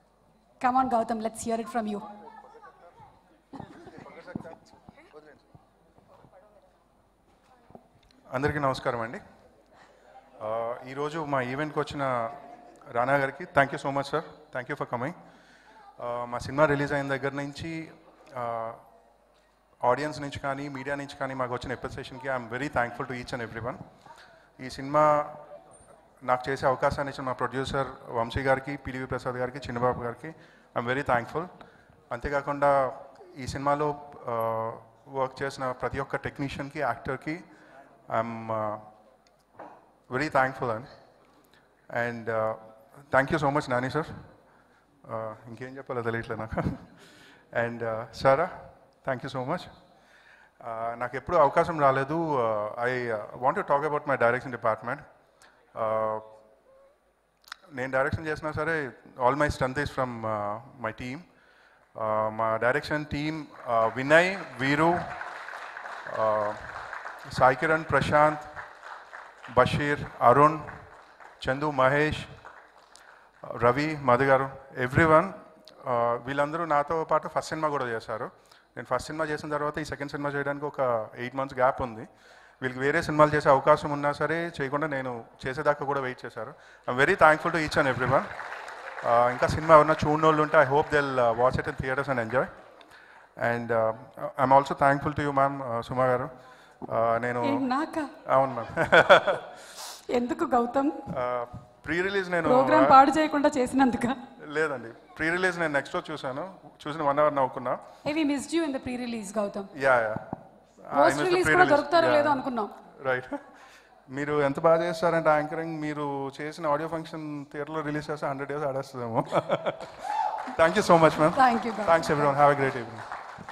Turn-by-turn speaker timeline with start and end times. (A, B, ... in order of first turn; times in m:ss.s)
0:00.6-0:02.1 A
0:08.3-0:09.2 B
0:10.4-0:15.2 B
0:16.0-0:18.8 B
0:19.8-0:23.8 B
0:24.6-0:25.4 B
0:26.2-0:31.5 B
0:32.1-0:37.4 B
0:38.1-0:38.8 B
0:40.1-0:40.9 B
0:41.9-0:44.2 B
0:45.0-0:46.9 B
0:47.5-0:48.5 B
0:49.0-0:49.7 B
0:50.6-0:55.0 B
0:55.7-0:56.3 B
0:57.7-1:01.2 B
1:02.0-1:05.2 B
1:06.1-1:08.5 B
1:09.5-1:10.8 B
1:11.4-1:12.3 B
1:13.4-1:22.1 B
1:22.6-1:28.3 B
1:29.0-1:32.5 B
1:33.4-1:36.3 B
1:36.9-1:37.7 B
1:37.4-1:38.1 A
1:38.2-1:39.6 B
1:40.1-1:41.1 A
1:41.1-1:43.0 B
1:42.4-1:44.2 A
1:44.4-1:47.8 B
1:48.0-1:49.7 A
1:49.7-1:52.5 B
1:50.9-1:52.7 A
1:53.0-1:53.4 B
1:54.1-2:03.0 B
2:01.3-2:02.4 A